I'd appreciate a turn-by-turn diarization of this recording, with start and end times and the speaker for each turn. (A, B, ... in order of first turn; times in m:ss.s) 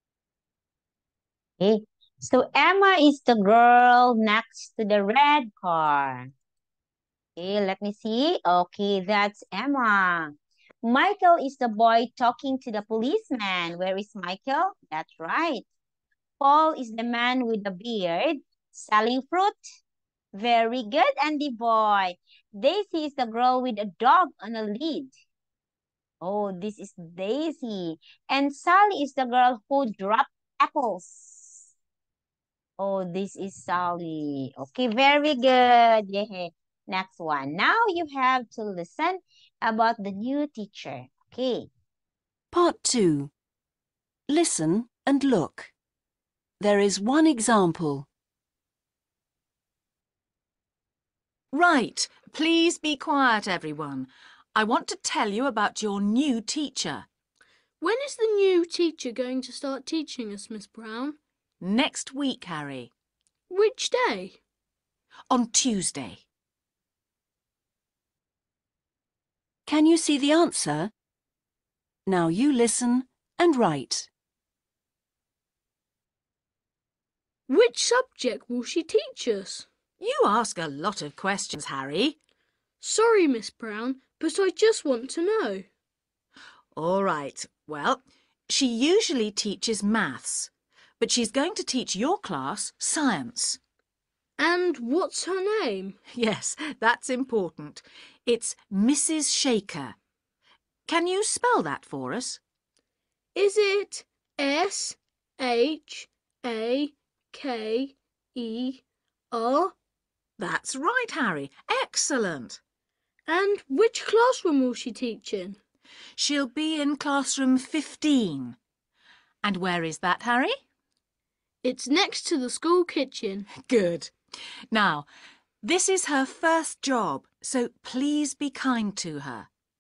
0:01.6-0:06.3 A
0:07.4-0:15.6 A
0:16.4-0:19.6 A
0:20.3-0:25.1 A
0:26.2-0:31.7 A
0:32.8-0:41.7 A
0:42.5-0:43.3 B
0:44.3-0:45.7 B
0:46.6-0:48.1 B
0:51.5-0:57.1 C
0:57.8-1:01.2 D
1:01.6-1:02.9 C
1:03.5-1:04.4 D
1:05.3-1:06.2 C
1:09.7-1:10.9 B
1:12.1-1:14.1 B
1:17.5-1:19.7 D
1:20.0-1:22.2 C
1:22.8-1:25.6 D
1:26.8-1:33.6 C
1:34.4-1:36.0 D
1:36.1-1:40.0 C
1:40.9-1:42.4 C
1:43.4-1:48.8 D
1:49.3-1:49.7 D
1:50.4-1:52.6 C
1:53.3-1:55.6 D
1:56.2-1:58.6 C
1:59.4-2:00.6 C
2:01.6-2:03.5 D
2:03.5-2:04.1 C
2:04.7-2:05.1 C
2:05.6-2:09.5 C